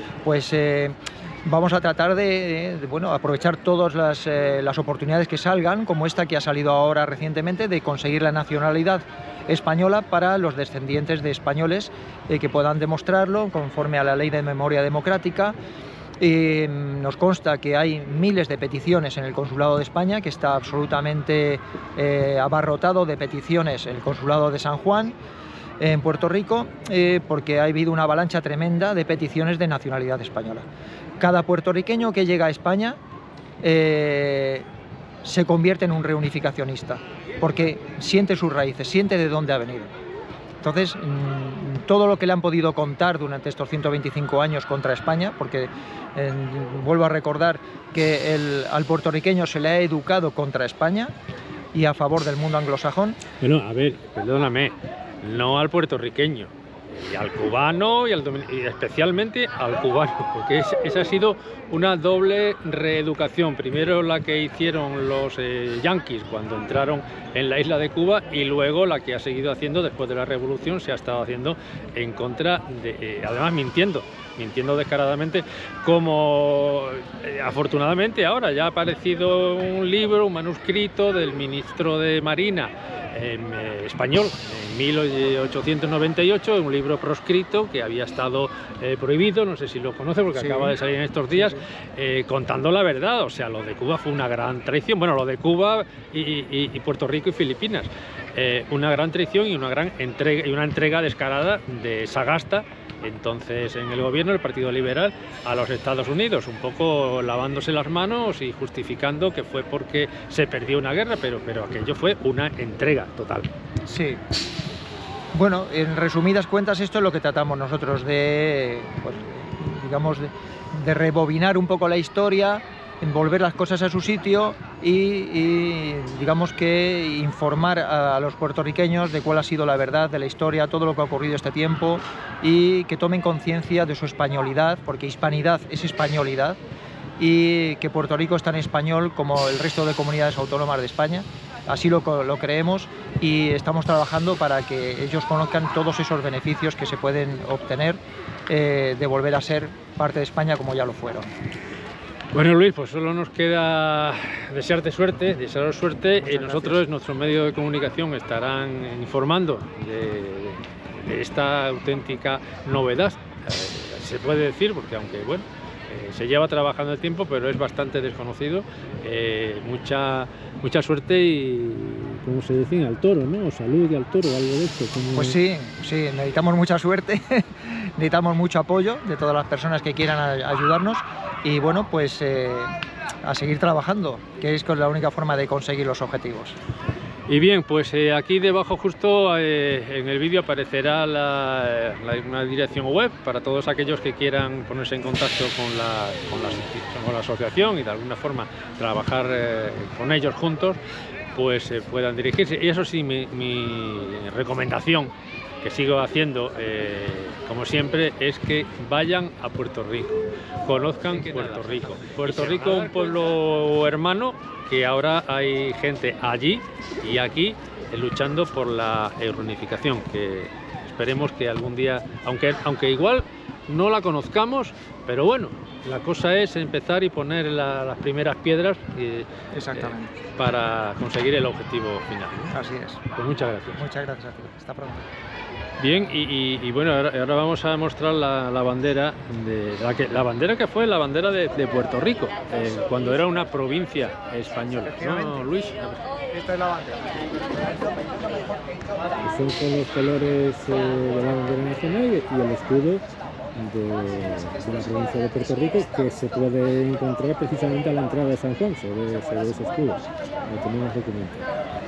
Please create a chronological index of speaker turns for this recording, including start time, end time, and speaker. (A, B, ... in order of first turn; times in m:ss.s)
0:00.2-0:15.5 A
0:16.2-0:25.1 A
0:25.8-0:30.6 A
0:31.2-0:33.0 A
0:33.6-0:34.6 A
0:35.2-0:39.9 A
0:40.6-0:51.1 A
0:51.7-0:53.2 A
0:53.4-1:53.5 B
1:30.4-1:30.8 A
1:53.8-1:54.2 A
1:55.3-2:16.6 A
2:17.2-2:31.3 A
2:32.3-2:55.4 B
2:36.3-2:36.8 A
2:55.1-3:06.6 A
3:07.3-3:20.8 B
3:21.3-3:52.5 B
3:49.5-3:50.1 A
3:52.5-3:53.0 A
3:53.1-3:53.8 B
3:53.8-3:55.1 A
3:55.8-4:06.0 B
4:09.2-4:13.0 B
4:13.5-4:21.4 B